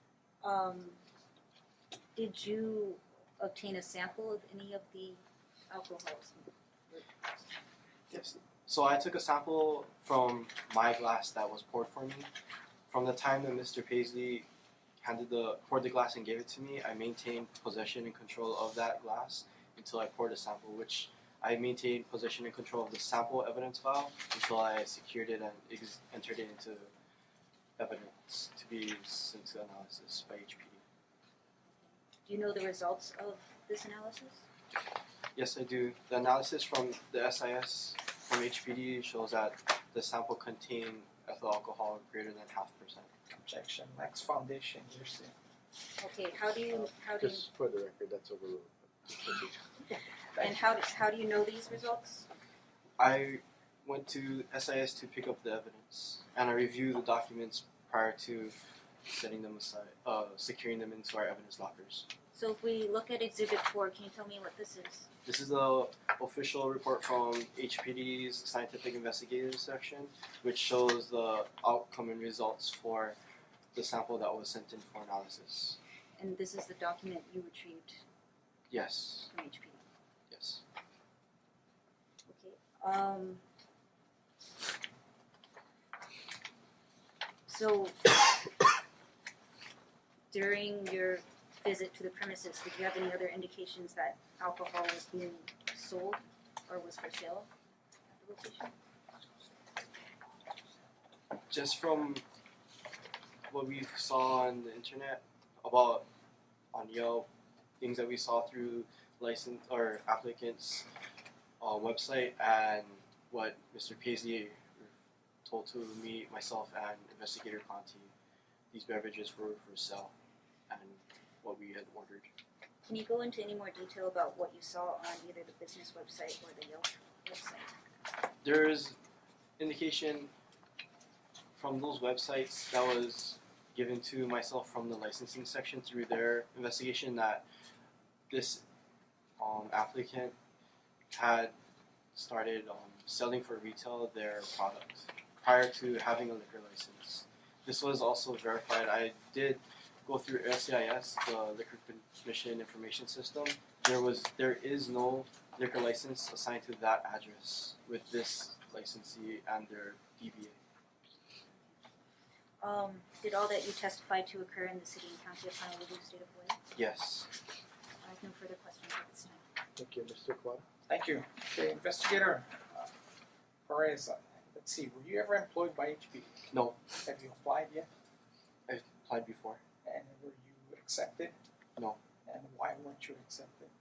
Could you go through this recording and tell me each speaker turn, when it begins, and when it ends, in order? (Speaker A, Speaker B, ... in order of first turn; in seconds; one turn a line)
Speaker A: 0.4-1.0
Speaker A: 2.1-7.2
Speaker B: 8.1-12.3
Speaker B: 12.9-14.4
Speaker B: 15.0-26.9
Speaker B: 27.8-30.8
Speaker A: 31.7-34.4
Speaker B: 35.3-43.1
Speaker C: 43.3-45.3
Speaker A: 46.0-47.5
Speaker D: 46.7-49.7
Speaker A: 50.4-52.3
Speaker B: 53.0-62.1
Speaker A: 62.3-65.1
Speaker B: 65.2-73.2
Speaker B: 73.7-75.8
Speaker A: 76.2-78.0
Speaker B: 78.7-79.3
Speaker A: 79.3-79.8
Speaker B: 80.3-80.6
Speaker A: 82.3-83.4
Speaker A: 87.5-88.4
Speaker A: 90.3-97.5
Speaker A: 98.1-98.7
Speaker B: 101.5-102.2
Speaker B: 103.5-106.0
Speaker B: 106.7-107.3
Speaker B: 107.8-110.9
Speaker B: 111.6-114.9
Speaker B: 115.4-118.1
Speaker B: 118.7-120.1
Speaker B: 120.7-122.3
Speaker A: 122.8-127.7
Speaker B: 128.4-129.0
Speaker B: 129.6-130.3
Speaker B: 131.5-137.4
Speaker B: 138.3-138.6
Speaker B: 139.4-140.3
Speaker B: 141.1-141.5
Speaker B: 142.1-160.6
Speaker A: 162.6-166.6
Speaker B: 166.7-167.3
Speaker A: 168.0-169.4
Speaker D: 169.8-170.6
Speaker C: 170.9-172.9
Speaker C: 173.7-177.9
Speaker B: 176.5-176.8
Speaker B: 178.7-179.6
Speaker C: 179.8-181.3
Speaker C: 182.2-183.7